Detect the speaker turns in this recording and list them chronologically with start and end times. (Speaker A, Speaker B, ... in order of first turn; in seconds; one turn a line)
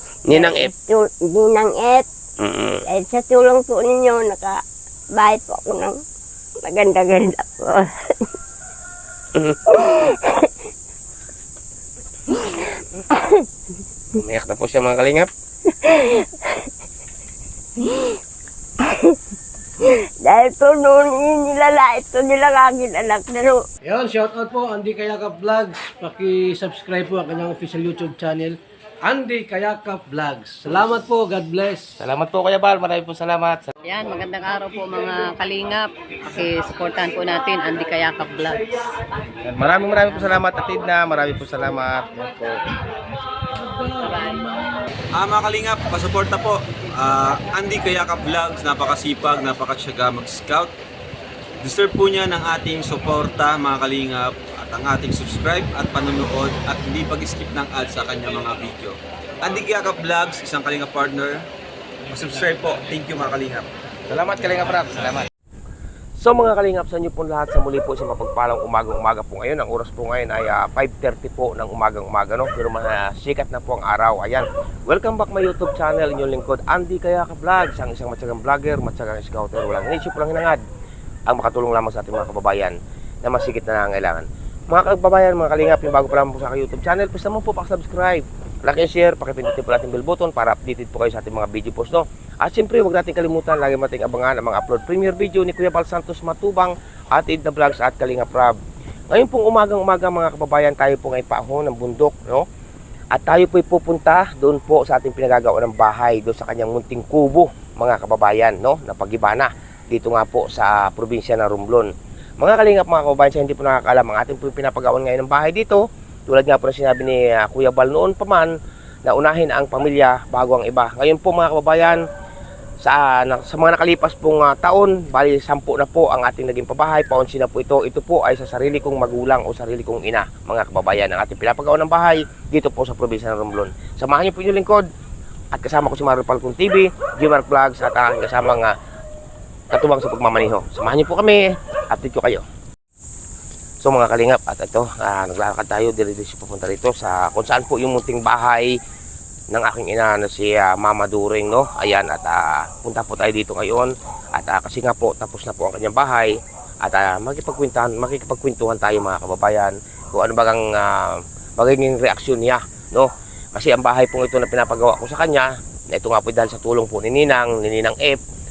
Speaker A: 0.3-0.7
Speaker B: 0.3-2.1
Speaker A: 2.4-2.8
Speaker B: 2.9-4.6
Speaker B: 5.2-6.0
Speaker B: 6.6-8.3
Speaker B: 9.7-10.5
Speaker B: 12.3-13.5
Speaker A: 14.2-15.3
Speaker B: 15.7-16.7
Speaker B: 17.8-18.2
Speaker B: 18.8-19.2
Speaker B: 19.8-23.6
Speaker C: 23.8-31.9
Speaker A: 32.0-33.7
Speaker D: 33.8-38.6
Speaker A: 39.4-42.6
Speaker D: 43.8-44.6
Speaker E: 45.1-50.7
Speaker E: 51.6-61.5
Speaker E: 62.1-63.7
Speaker A: 64.1-65.3
Speaker A: 66.2-80.6
Speaker A: 81.3-98.5
Speaker A: 99.1-102.5
Speaker A: 103.1-118.5
Speaker A: 119.0-122.0
Speaker A: 122.8-134.8
Speaker A: 135.5-138.7
Speaker A: 139.7-142.4
Speaker A: 143.8-148.8
Speaker A: 149.5-168.2